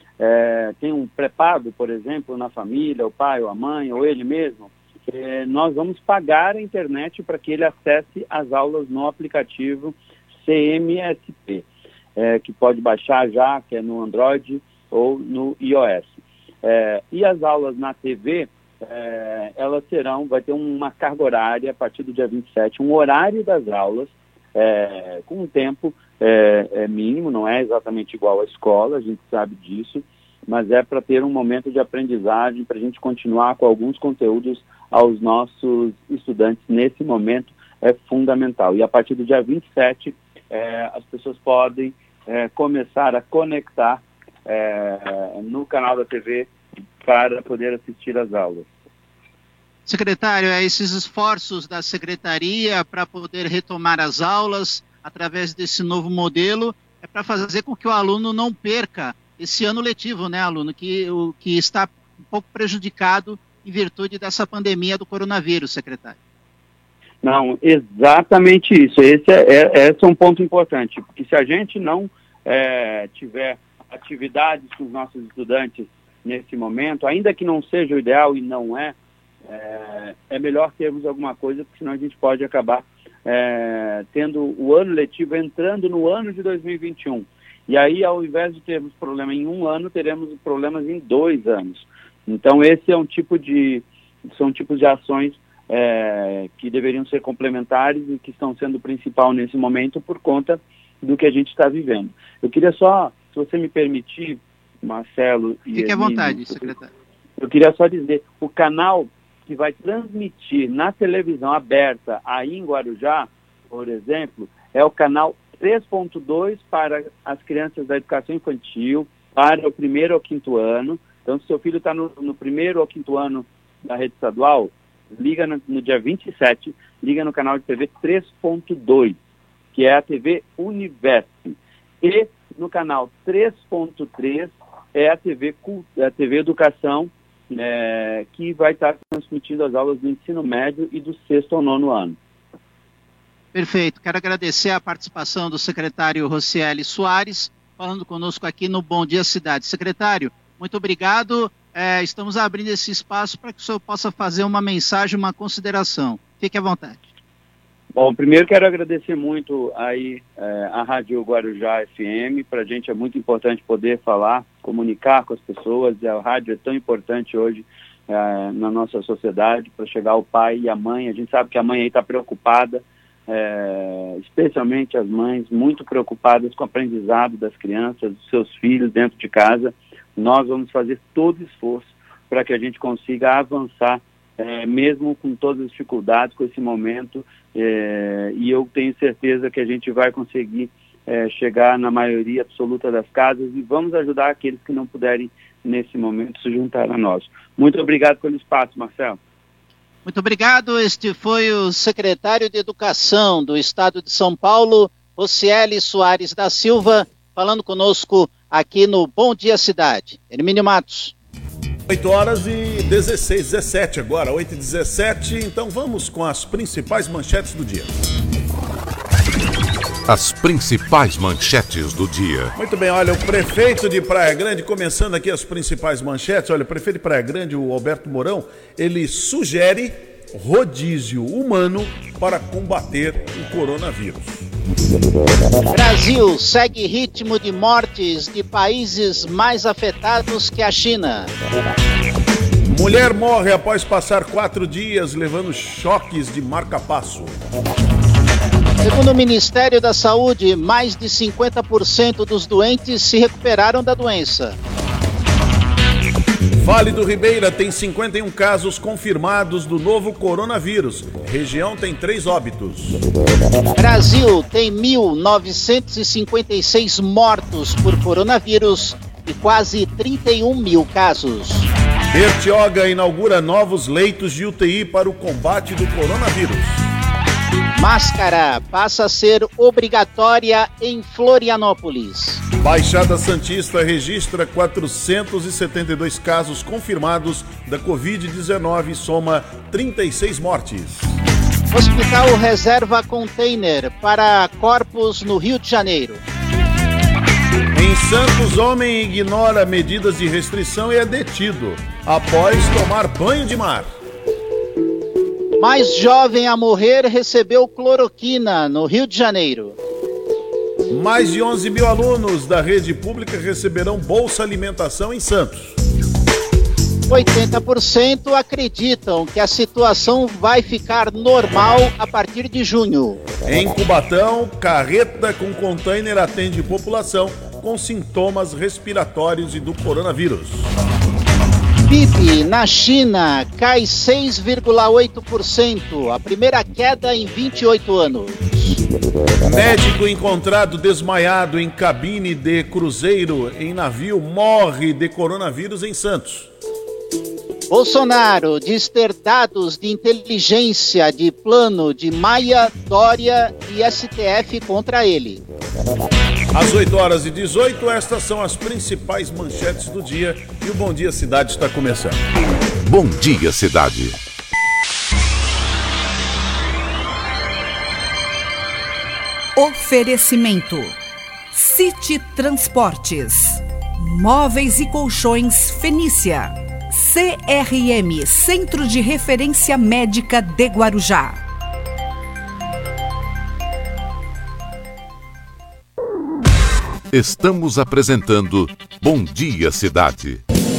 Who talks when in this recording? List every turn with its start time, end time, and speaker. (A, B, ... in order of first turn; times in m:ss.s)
0:00.2-0:16.1 A
0:16.6-0:46.5 A
0:47.0-0:48.7 A
0:49.9-1:06.2 B
1:07.2-1:18.9 A
1:19.5-1:33.8 A
1:34.4-1:46.7 A
1:45.7-1:46.9 B
1:47.4-2:09.2 A
2:09.7-2:22.2 A
2:23.5-2:37.1 B
2:37.9-3:19.2 A
3:20.0-3:31.1 B
3:31.9-3:37.9 C
3:40.1-3:42.5 D
3:42.6-3:54.5 C
3:55.7-4:01.3 B
4:02.6-4:07.4 C
4:08.8-4:14.6 B
4:16.5-4:23.0 C
4:23.8-4:31.7 B
4:32.1-4:36.9 C
4:37.8-4:42.4 B
4:42.6-4:51.2 C
4:51.7-4:56.2 B
4:57.7-5:03.9 C
5:05.6-5:09.8 B
5:10.9-5:15.8 C
5:17.1-5:23.2 B
5:23.4-5:30.7 C
5:31.9-5:38.8 B
5:39.4-5:46.5 C
5:47.7-5:55.4 B
5:56.5-6:02.2 C
6:02.8-6:04.2 D
6:09.6-6:11.0 E
6:11.5-6:21.4 E
6:27.1-6:30.4 D